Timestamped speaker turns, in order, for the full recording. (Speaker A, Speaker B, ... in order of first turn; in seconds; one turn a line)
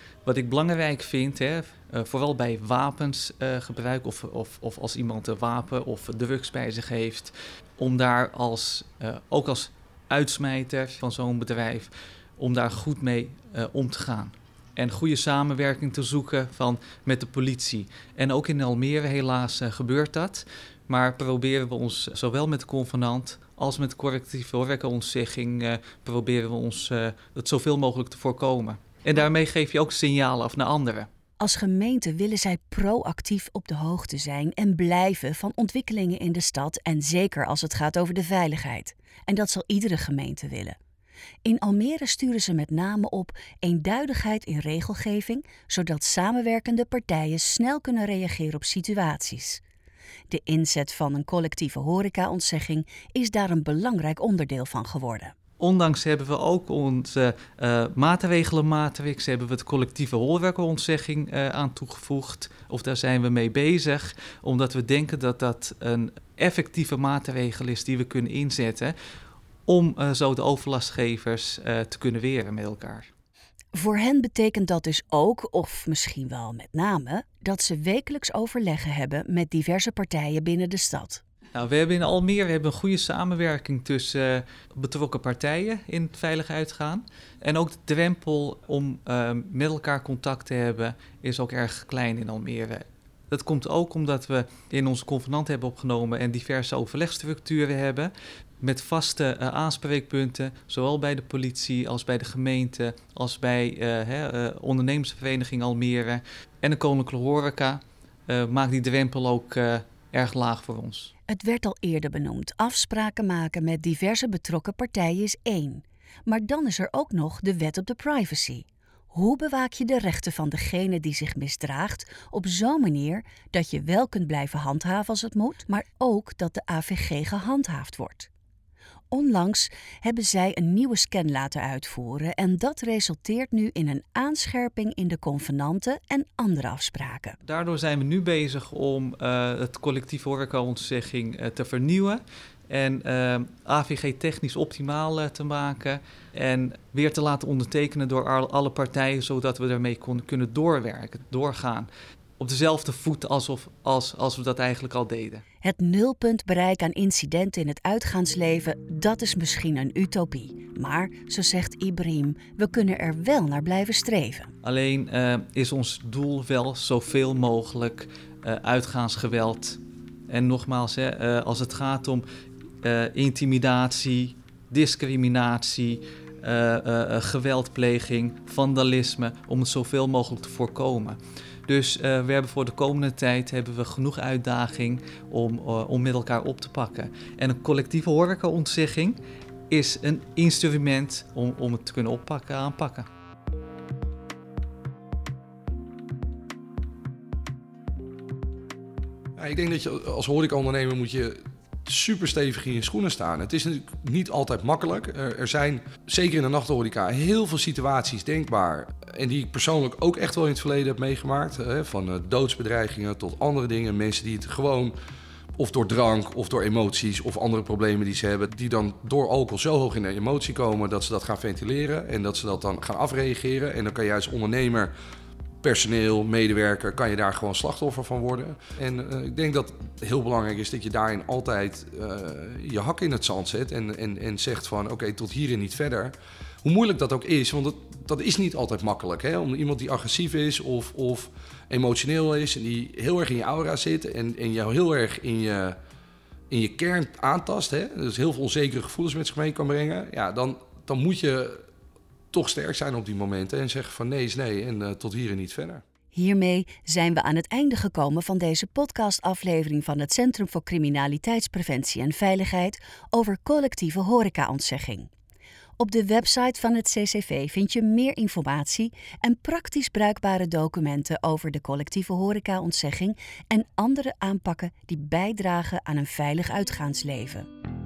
Speaker A: 0.2-31.1
Speaker B: 31.4-40.8
Speaker B: 41.4-49.6
Speaker B: 50.3-55.4
Speaker A: 55.6-68.9
Speaker A: 69.7-73.1
Speaker B: 73.7-81.2
Speaker A: 81.5-111.1
Speaker B: 111.3-128.3
Speaker B: 129.1-137.4
Speaker A: 137.4-155.4
Speaker B: 155.6-164.5
Speaker A: 164.6-172.2
Speaker A: 172.8-189.2
Speaker A: 189.7-193.1
Speaker C: 199.4-214.9
Speaker C: 215.6-224.9
Speaker C: 225.6-245.8
Speaker C: 246.5-251.6
Speaker C: 252.3-255.8
Speaker B: 256.1-265.1
Speaker B: 265.8-277.5